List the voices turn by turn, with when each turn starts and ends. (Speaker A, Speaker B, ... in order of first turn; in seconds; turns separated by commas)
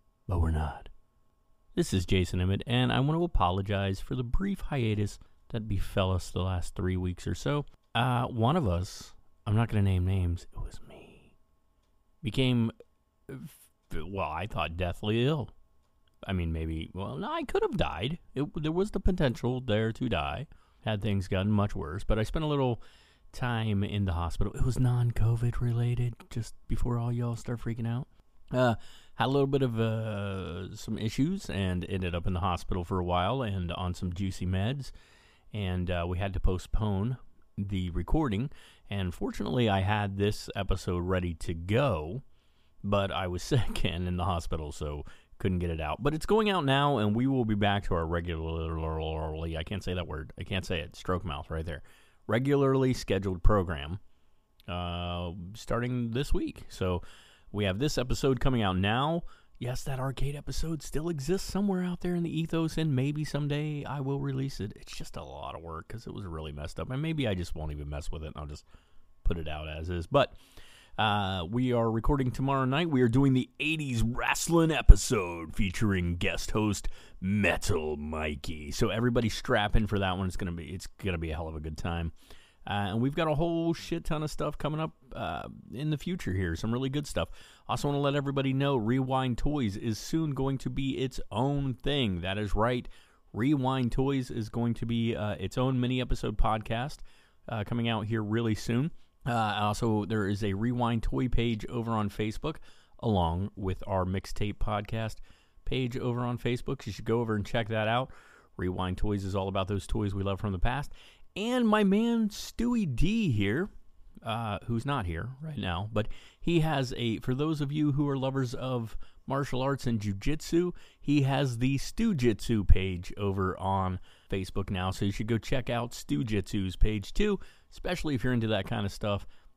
Speaker A: 0.3-0.9, Speaker A: 1.7-11.3, Speaker A: 12.2-12.7, Speaker A: 13.3-15.5, Speaker A: 16.2-22.8, Speaker A: 23.3-34.9, Speaker A: 35.5-42.2, Speaker A: 42.8-54.0, Speaker A: 54.7-68.6, Speaker A: 69.2-70.3, Speaker A: 71.0-82.1, Speaker A: 82.7-113.7, Speaker A: 114.2-129.2